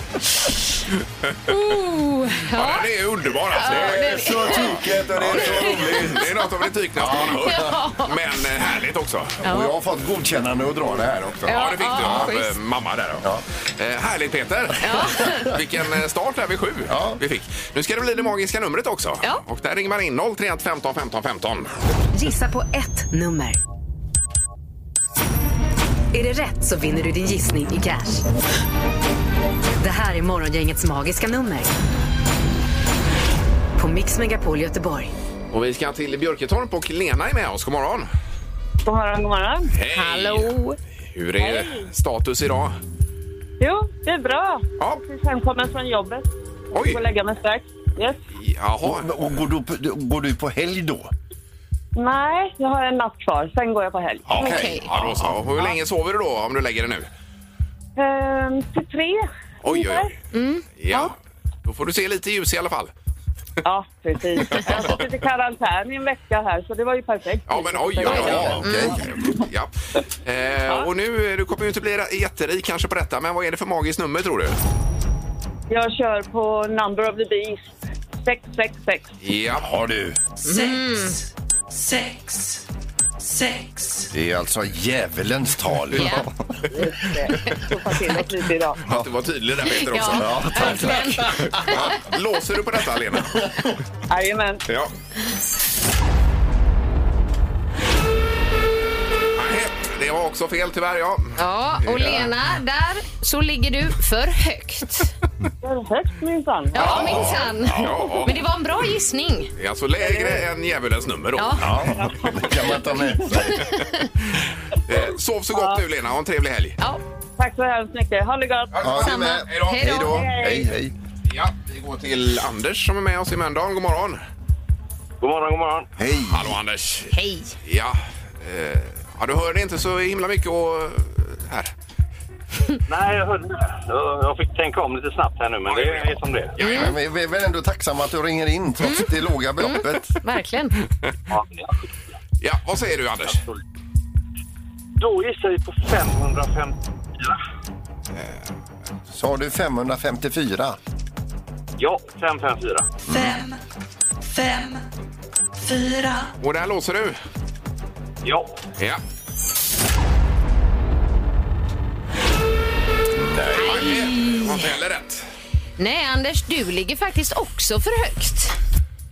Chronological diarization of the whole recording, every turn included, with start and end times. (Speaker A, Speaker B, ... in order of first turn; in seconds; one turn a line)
Speaker A: 1.4-2.9
Speaker B: 2.5-9.4
Speaker A: 3.5-4.8
Speaker C: 3.6-6.3
Speaker A: 5.3-6.2
Speaker C: 7.0-7.8
Speaker A: 7.3-8.1
Speaker C: 9.4-12.3
Speaker A: 9.4-9.7
Speaker B: 11.4-21.7
Speaker A: 11.5-12.6
Speaker A: 14.8-15.5
Speaker C: 16.9-17.2
Speaker D: 22.1-23.6
Speaker D: 26.1-28.2
Speaker D: 29.8-31.7
Speaker D: 33.8-35.1
Speaker B: 35.5-38.1
Speaker E: 38.8-39.7
Speaker B: 39.7-40.5
Speaker A: 39.9-40.8
Speaker B: 41.1-42.8
Speaker E: 41.4-41.9
Speaker E: 43.6-48.2
Speaker B: 46.7-47.0
Speaker B: 48.4-49.1
Speaker C: 48.8-51.1
Speaker E: 52.0-54.3
Speaker C: 54.3-55.4
Speaker B: 54.3-57.1
Speaker A: 54.4-54.9
Speaker E: 58.0-60.1
Speaker B: 59.6-60.1
Speaker A: 60.3-61.1
Speaker B: 60.8-61.1
Speaker B: 61.6-62.9
Speaker E: 63.6-68.6
Speaker B: 64.5-65.0
Speaker B: 67.5-69.7
Speaker C: 68.0-69.1
Speaker A: 68.6-69.0
Speaker B: 70.2-74.6
Speaker E: 75.7-77.7
Speaker E: 78.2-79.1
Speaker B: 79.2-79.7
Speaker C: 79.6-80.2
Speaker F: 80.4-82.6
Speaker A: 80.4-81.2
Speaker F: 83.2-84.1
Speaker C: 84.1-86.3
Speaker A: 85.9-86.3
Speaker E: 86.7-88.8
Speaker B: 88.8-93.4
Speaker A: 89.9-92.0
Speaker C: 90.1-91.9
Speaker E: 94.1-94.6
Speaker B: 94.7-94.9
Speaker B: 99.3-102.2
Speaker A: 101.4-105.1
Speaker E: 105.6-107.2
Speaker A: 106.7-109.5
Speaker B: 106.8-108.4
Speaker C: 106.8-107.4
Speaker B: 109.6-111.9
Speaker E: 110.0-110.5
Speaker A: 111.3-111.7
Speaker C: 111.6-113.7
Speaker E: 111.9-113.2
Speaker A: 113.5-114.0
Speaker B: 114.8-116.8
Speaker E: 115.5-115.8
Speaker E: 117.4-118.7
Speaker B: 118.7-120.0
Speaker C: 118.8-120.9
Speaker A: 119.0-120.3
Speaker E: 120.1-120.6
Speaker B: 121.3-124.2
Speaker G: 125.2-125.9
Speaker C: 126.0-126.6
Speaker B: 126.3-131.7
Speaker A: 127.1-127.5
Speaker G: 132.9-136.6
Speaker B: 135.7-137.0
Speaker A: 136.6-136.9
Speaker C: 136.7-140.2
Speaker A: 139.6-140.7
Speaker G: 141.3-141.7
Speaker B: 142.4-143.4
Speaker G: 145.0-147.3
Speaker C: 149.1-150.8
Speaker G: 151.8-153.0
Speaker C: 153.1-153.3
Speaker F: 153.1-153.6
Speaker F: 154.2-154.8
Speaker F: 155.6-156.3
Speaker B: 156.4-157.2
Speaker G: 158.2-158.6
Speaker C: 163.1-164.1
Speaker A: 163.6-164.6
Speaker B: 163.6-165.2
Speaker A: 165.8-168.6